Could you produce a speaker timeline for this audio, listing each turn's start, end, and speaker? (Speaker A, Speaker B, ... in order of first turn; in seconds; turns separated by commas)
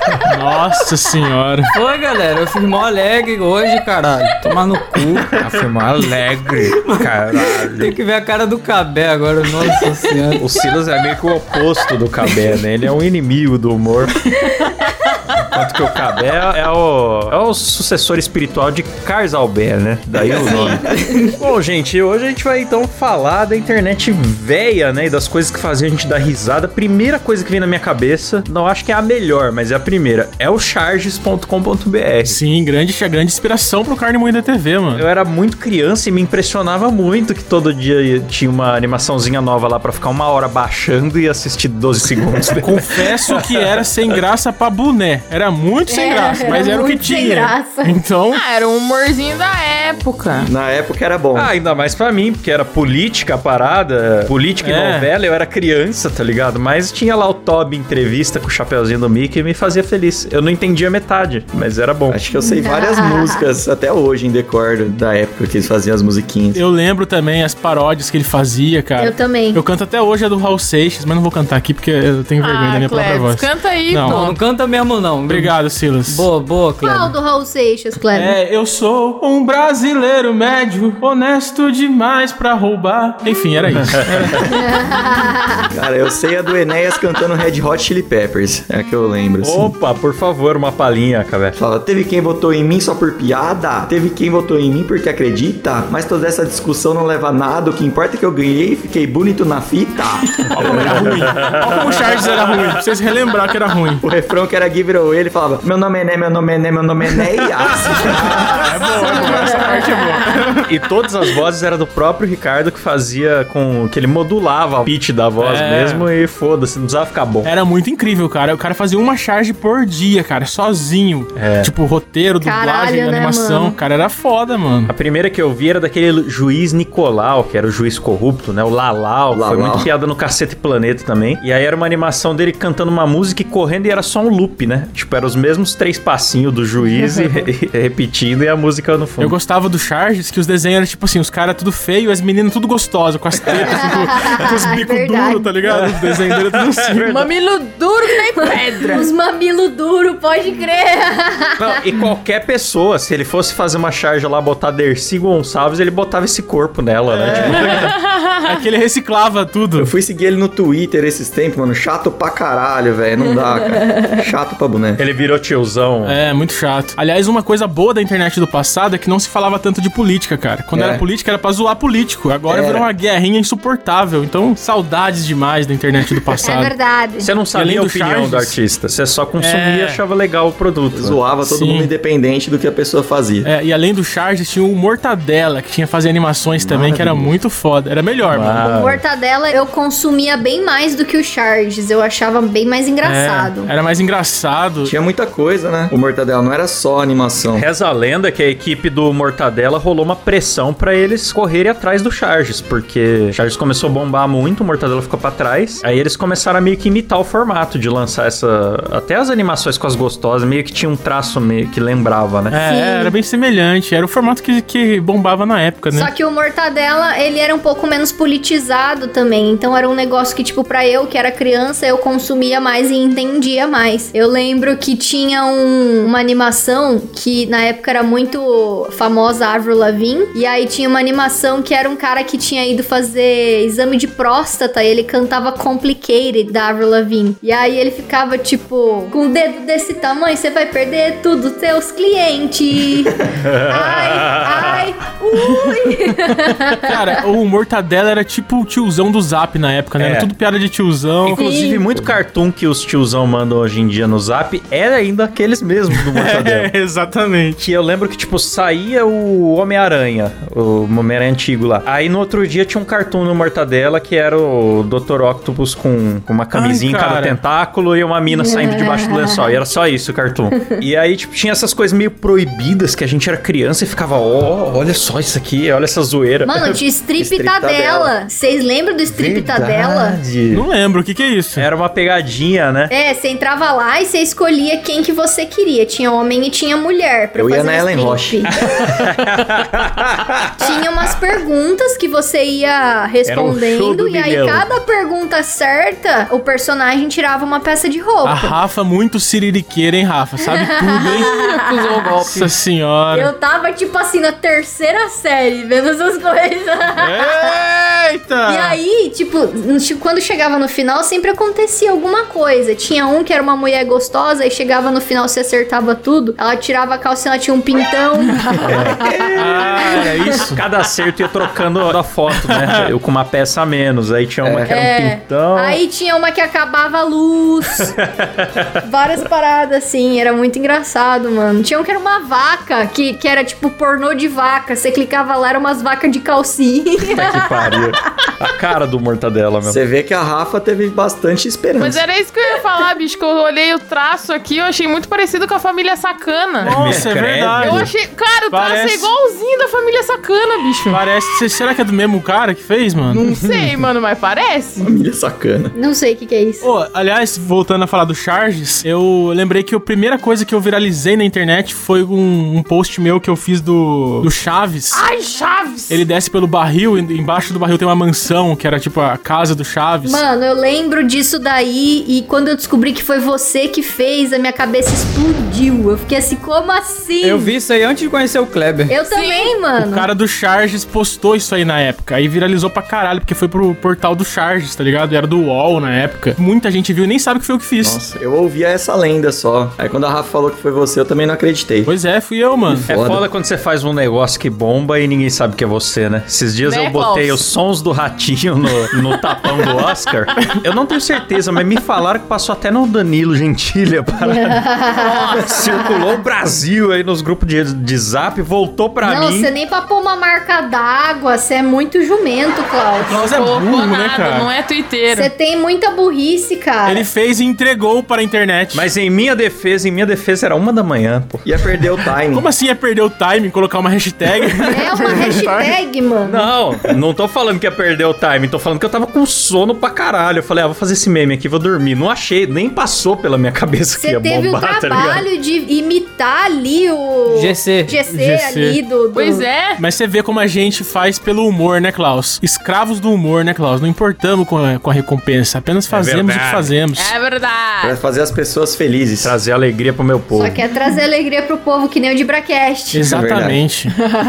Speaker A: 0.2-1.7, Speaker B: 1.7-5.5, Speaker C: 5.3-7.9, Speaker B: 6.5-10.4, Speaker C: 10.4-14.2, Speaker C: 15.4-32.4, Speaker D: 20.2-21.3, Speaker A: 32.2-35.0, Speaker C: 34.9-44.2, Speaker A: 42.8-48.4, Speaker E: 45.9-48.0, Speaker F: 48.3-50.5, Speaker D: 50.4-51.5, Speaker C: 51.3-62.2, Speaker A: 54.6-55.1, Speaker D: 62.1-66.6, Speaker E: 62.4-63.4, Speaker A: 66.5-74.3, Speaker E: 69.0-69.6, Speaker F: 72.4-74.3, Speaker B: 74.0-77.1, Speaker A: 75.3-76.3, Speaker E: 76.8-78.3, Speaker A: 78.1-84.5, Speaker C: 83.6-84.5, Speaker E: 84.5-85.6, Speaker D: 85.7-89.7, Speaker C: 89.4-91.5, Speaker D: 91.5-101.2, Speaker A: 100.4-104.0, Speaker C: 100.6-102.8, Speaker D: 104.0-109.6, Speaker C: 107.8-109.3, Speaker A: 108.0-110.7, Speaker E: 109.1-110.2, Speaker C: 110.7-117.5, Speaker A: 115.4-116.1, Speaker A: 117.4-124.9, Speaker C: 121.3-121.7, Speaker E: 122.4-123.8, Speaker C: 124.9-139.3, Speaker D: 129.3-129.9, Speaker F: 136.8-137.5, Speaker A: 139.2-147.1, Speaker D: 143.4-143.8, Speaker E: 143.7-145.5, Speaker C: 145.6-147.3, Speaker F: 147.1-149.1, Speaker E: 148.4-151.8, Speaker C: 151.6-157.9, Speaker A: 157.1-159.9, Speaker D: 157.3-157.6, Speaker F: 157.7-158.6, Speaker D: 159.8-165.0, Speaker C: 165.0-166.2, Speaker A: 166.0-176.8, Speaker D: 170.7-171.0, Speaker D: 172.5-172.9, Speaker E: 176.4-177.3, Speaker C: 177.2-181.2, Speaker A: 177.5-178.6, Speaker A: 179.4-180.0, Speaker D: 180.9-183.5, Speaker A: 181.4-181.9, Speaker A: 183.4-188.7, Speaker D: 186.6-187.3, Speaker C: 188.3-189.0, Speaker E: 188.6-193.7, Speaker A: 193.0-194.9, Speaker D: 194.8-197.7, Speaker C: 197.5-212.6, Speaker A: 212.5-216.1, Speaker E: 212.6-213.1, Speaker E: 215.9-243.1, Speaker C: 243.4-244.8, Speaker E: 243.7-246.9, Speaker A: 245.7-245.9, Speaker A: 246.8-251.4, Speaker C: 250.0-250.3, Speaker C: 251.2-256.7, Speaker E: 251.4-251.8, Speaker A: 255.9-257.6, Speaker C: 257.6-276.8, Speaker A: 266.5-267.4, Speaker E: 268.3-269.5, Speaker E: 276.4-280.2, Speaker D: 277.2-278.1, Speaker C: 279.1-280.6, Speaker A: 280.5-281.7, Speaker C: 281.6-282.9, Speaker E: 282.9-288.5, Speaker D: 287.4-288.5, Speaker C: 288.6-290.6, Speaker E: 290.6-298.6, Speaker C: 293.2-294.7, Speaker A: 298.2-301.3, Speaker E: 300.5-302.1, Speaker F: 301.0-302.5, Speaker A: 302.2-303.3, Speaker E: 303.1-307.6, Speaker A: 307.0-308.8, Speaker E: 308.4-319.2, Speaker A: 318.5-320.6, Speaker C: 318.7-325.8, Speaker E: 319.8-320.4, Speaker A: 322.4-322.9, Speaker D: 324.4-324.7, Speaker E: 324.7-327.9, Speaker C: 327.8-328.7, Speaker E: 328.8-337.8, Speaker C: 337.0-339.8, Speaker D: 339.6-342.0, Speaker F: 341.8-346.8, Speaker A: 346.6-347.9, Speaker C: 346.6-347.9, Speaker F: 347.6-351.0, Speaker A: 348.5-349.1, Speaker A: 350.9-353.3, Speaker F: 353.1-354.9, Speaker D: 354.8-355.7, Speaker E: 355.7-356.7, Speaker A: 356.6-365.0, Speaker F: 364.9-366.0, Speaker A: 365.9-370.2, Speaker E: 370.0-377.5, Speaker B: 377.2-378.9, Speaker E: 378.9-380.1, Speaker F: 379.1-379.5, Speaker A: 379.8-388.0, Speaker D: 387.8-391.9, Speaker A: 391.9-392.9, Speaker D: 392.7-393.2, Speaker C: 392.9-404.6, Speaker F: 396.6-397.4, Speaker E: 404.2-406.0, Speaker F: 404.9-405.8, Speaker C: 405.4-409.5, Speaker E: 409.0-413.3, Speaker A: 413.0-414.5, Speaker F: 413.2-415.3, Speaker E: 415.1-417.1, Speaker A: 416.8-418.9, Speaker C: 418.7-421.4, Speaker D: 421.4-422.5, Speaker A: 422.3-425.7, Speaker E: 424.7-426.5, Speaker C: 426.2-435.3, Speaker E: 433.9-439.4, Speaker B: 437.3-438.0, Speaker A: 438.1-438.8, Speaker F: 439.1-439.8, Speaker A: 439.8-447.1, Speaker C: 445.9-446.7, Speaker F: 446.9-448.0, Speaker D: 447.8-449.3, Speaker C: 449.2-450.6, Speaker E: 450.3-453.1, Speaker A: 452.9-453.9, Speaker D: 453.0-453.6